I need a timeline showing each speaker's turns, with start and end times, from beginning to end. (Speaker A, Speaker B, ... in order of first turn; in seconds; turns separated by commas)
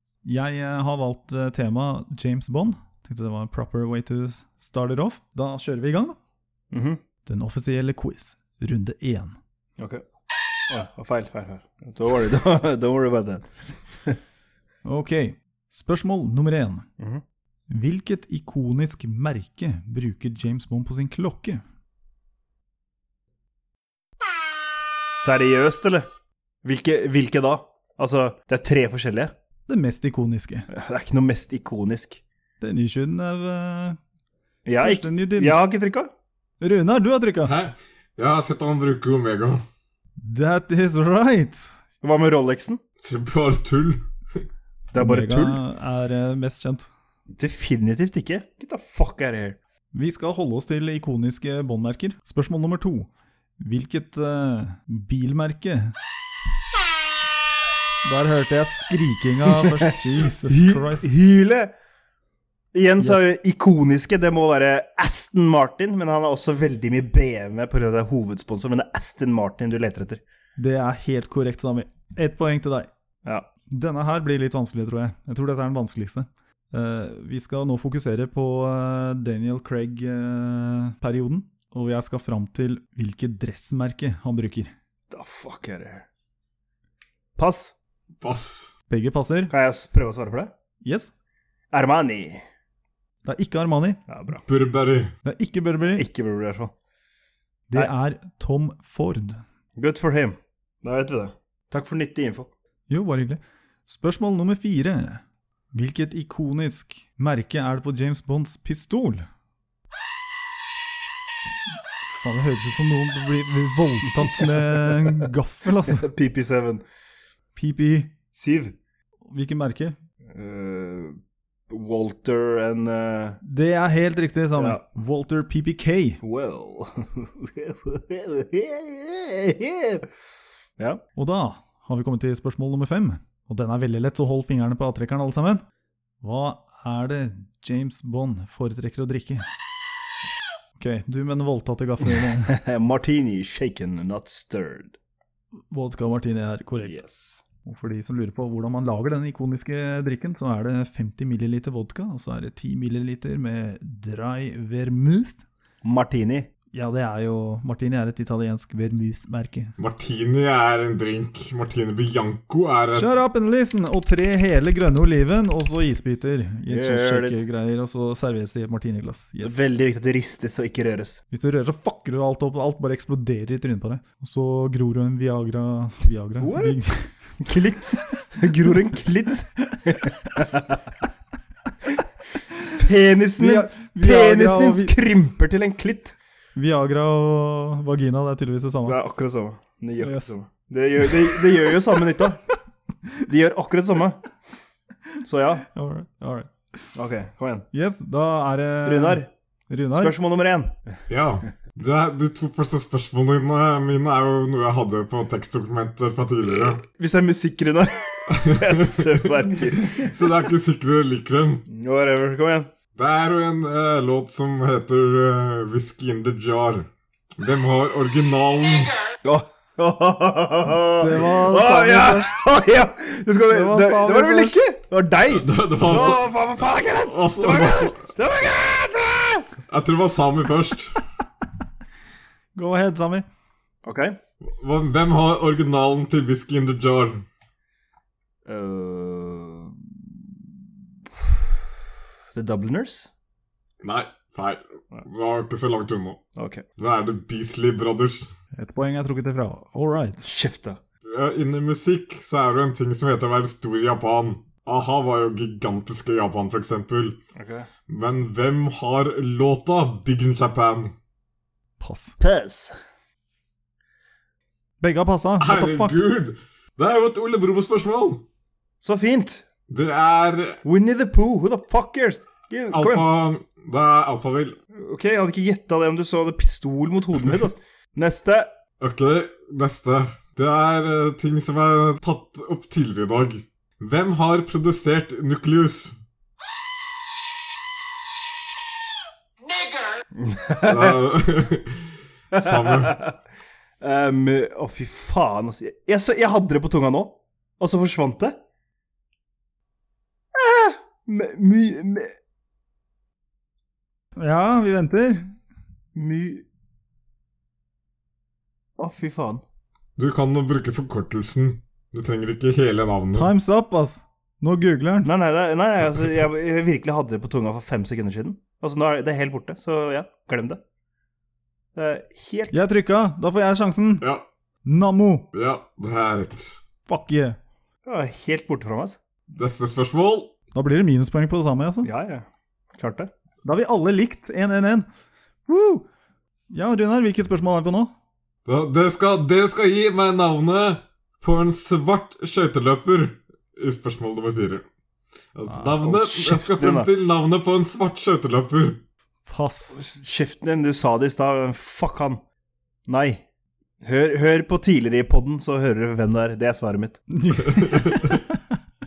Speaker A: 0.2-6.2, Speaker B: 6.7-7.0, Speaker A: 7.2-9.4, Speaker B: 9.8-10.0, Speaker B: 10.7-14.2, Speaker A: 14.8-16.9, Speaker A: 17.7-21.6, Speaker B: 25.2-26.1, Speaker B: 26.6-29.3, Speaker A: 29.7-30.7, Speaker B: 30.7-32.2, Speaker A: 32.6-34.0, Speaker B: 34.6-36.1, Speaker A: 34.8-35.6, Speaker A: 36.6-37.5, Speaker C: 37.4-39.6, Speaker A: 40.2-41.8, Speaker B: 42.0-42.8, Speaker C: 43.0-44.0, Speaker B: 44.9-45.6, Speaker A: 45.0-46.9, Speaker B: 47.3-49.6, Speaker A: 49.9-55.9, Speaker A: 58.0-61.1, Speaker B: 60.4-61.7, Speaker B: 62.7-70.2, Speaker A: 70.6-72.9, Speaker A: 73.7-84.7, Speaker B: 85.1-86.0, Speaker B: 87.3-87.7, Speaker C: 88.2-88.7, Speaker A: 88.9-89.5, Speaker B: 89.5-90.5, Speaker A: 90.8-91.1, Speaker B: 91.7-92.4, Speaker A: 93.2-94.0, Speaker B: 94.1-94.4, Speaker C: 94.5-95.1, Speaker A: 95.2-96.0, Speaker B: 95.9-96.7, Speaker A: 97.7-99.4, Speaker B: 99.8-102.5, Speaker A: 102.9-105.2, Speaker A: 105.7-109.3, Speaker A: 112.1-116.1, Speaker B: 114.4-115.3, Speaker B: 115.8-116.8, Speaker A: 117.5-118.1, Speaker B: 118.3-118.8, Speaker A: 119.3-120.0, Speaker B: 120.3-121.2, Speaker B: 121.7-123.4, Speaker A: 123.4-126.2, Speaker B: 124.6-124.8, Speaker B: 126.2-130.1, Speaker A: 131.2-135.6, Speaker A: 136.2-139.4, Speaker A: 140.8-142.6, Speaker B: 142.2-145.0, Speaker A: 145.7-147.0, Speaker B: 146.8-147.4, Speaker A: 147.6-155.4, Speaker B: 155.8-156.5, Speaker A: 156.7-159.7, Speaker C: 159.8-163.1, Speaker A: 162.9-169.6, Speaker B: 166.7-167.4, Speaker B: 169.4-171.2, Speaker A: 171.3-177.1, Speaker B: 176.4-176.8, Speaker B: 177.4-180.8, Speaker B: 182.7-186.2, Speaker A: 183.4-184.9, Speaker A: 186.6-189.0, Speaker B: 188.8-192.4, Speaker A: 190.0-190.3, Speaker B: 193.2-194.2, Speaker B: 195.2-195.7, Speaker A: 195.7-196.5, Speaker B: 196.9-197.7, Speaker A: 197.7-200.1, Speaker B: 198.8-199.3, Speaker B: 199.9-200.8, Speaker C: 201.1-206.8, Speaker B: 206.9-210.1, Speaker C: 208.4-211.6, Speaker B: 211.7-212.7, Speaker C: 212.9-218.9, Speaker B: 219.2-229.6, Speaker A: 221.0-222.3, Speaker A: 223.5-224.6, Speaker C: 225.3-228.1, Speaker C: 229.7-231.0, Speaker A: 232.6-233.2, Speaker B: 233.8-234.2, Speaker C: 234.5-237.2, Speaker B: 238.4-240.4, Speaker B: 241.1-241.8, Speaker B: 242.3-243.1, Speaker C: 243.8-246.2, Speaker B: 246.3-246.6, Speaker C: 246.8-248.3, Speaker A: 248.6-250.2, Speaker B: 250.2-250.8, Speaker C: 251.0-257.2, Speaker B: 257.4-257.7, Speaker C: 257.9-260.9, Speaker A: 261.8-262.2, Speaker B: 262.2-262.8, Speaker A: 264.8-265.9, Speaker C: 265.4-268.2, Speaker B: 268.8-269.4, Speaker C: 269.7-270.6, Speaker B: 270.6-273.1, Speaker C: 272.7-274.6, Speaker B: 274.7-278.5, Speaker C: 278.8-285.9, Speaker B: 290.1-291.0, Speaker C: 290.6-293.0, Speaker B: 292.3-293.1, Speaker B: 293.8-298.4, Speaker B: 300.3-302.1, Speaker A: 304.2-305.4, Speaker B: 305.9-306.4, Speaker B: 308.8-309.4, Speaker C: 310.0-313.3, Speaker A: 313.1-315.1, Speaker B: 315.0-320.6, Speaker B: 321.7-322.6, Speaker A: 322.5-324.1, Speaker A: 324.6-325.3, Speaker C: 325.3-326.6, Speaker A: 326.9-327.4, Speaker B: 327.8-329.0, Speaker C: 329.3-330.3, Speaker A: 330.5-331.9, Speaker B: 331.8-333.1, Speaker A: 333.4-334.9, Speaker A: 335.5-335.8, Speaker A: 336.5-337.9, Speaker C: 338.4-344.6, Speaker C: 345.3-348.8, Speaker A: 345.5-345.9, Speaker B: 345.8-346.9, Speaker A: 349.2-349.8, Speaker B: 349.7-352.2, Speaker B: 352.9-353.2, Speaker B: 353.8-357.0, Speaker A: 357.1-358.4, Speaker C: 357.4-358.2